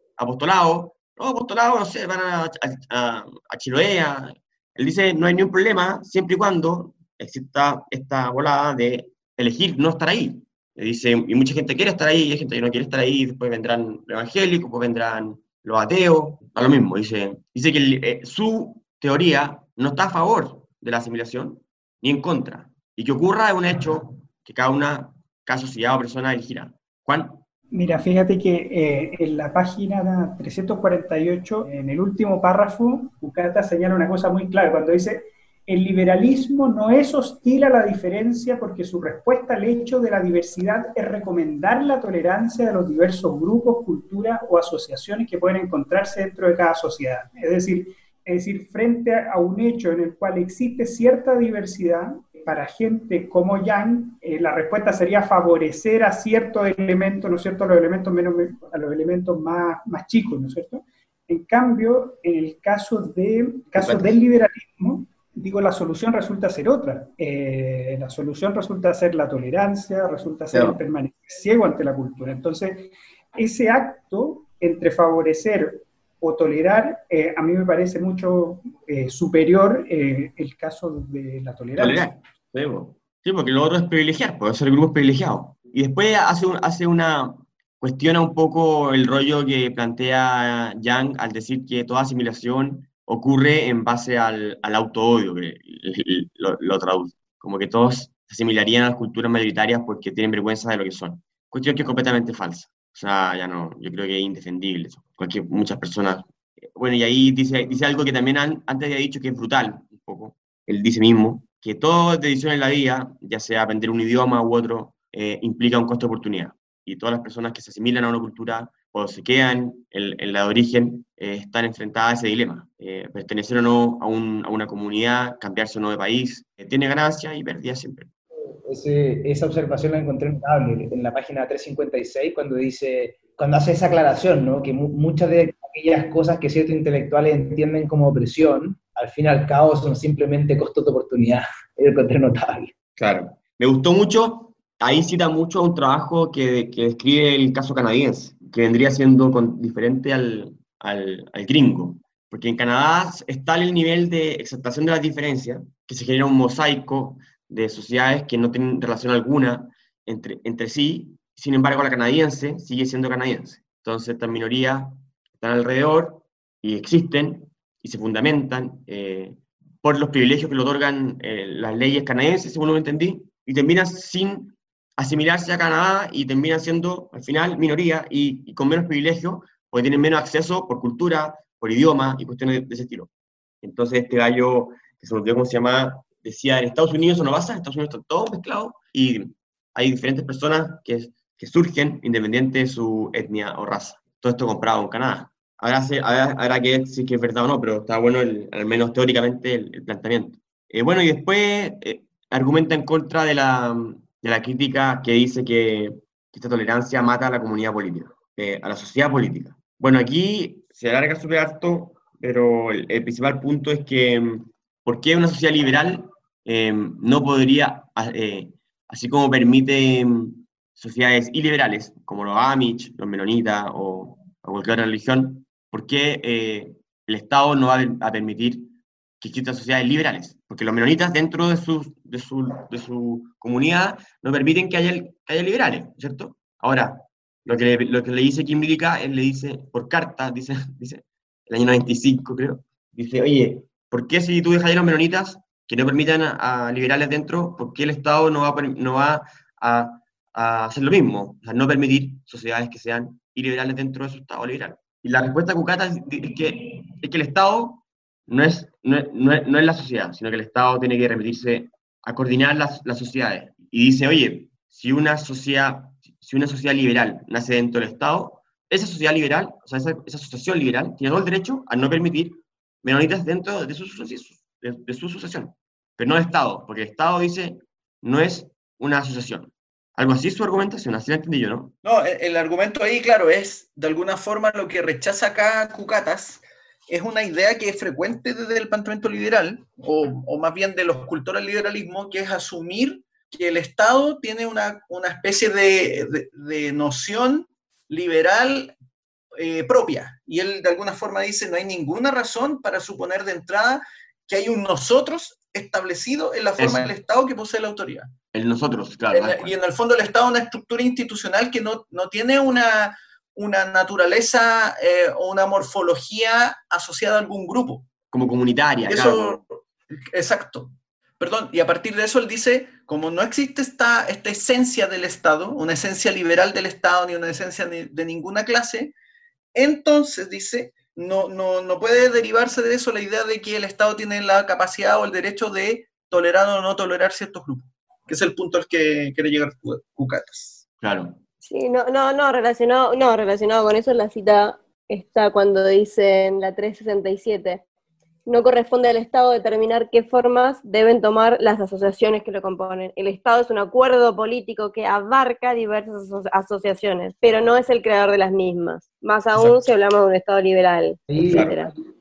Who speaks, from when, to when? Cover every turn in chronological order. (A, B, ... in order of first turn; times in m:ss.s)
0:00.2-0:27.4 A
0:27.7-1:22.1 B
1:03.8-1:04.2 A
1:10.5-1:10.8 A
1:21.8-2:08.1 A
2:08.3-2:22.7 C
2:23.0-3:03.1 A
3:03.6-4:41.8 A
4:41.8-4:58.8 D
4:59.4-5:08.1 D
5:06.6-5:06.9 A
5:08.3-5:09.6 A
5:09.1-5:17.9 D
5:18.1-5:19.4 A
5:18.9-5:28.9 D
5:29.6-5:40.6 D
5:40.8-5:41.2 A
5:41.4-5:47.6 E
5:48.3-6:01.7 E
6:01.1-6:01.6 C
6:01.3-6:01.5 A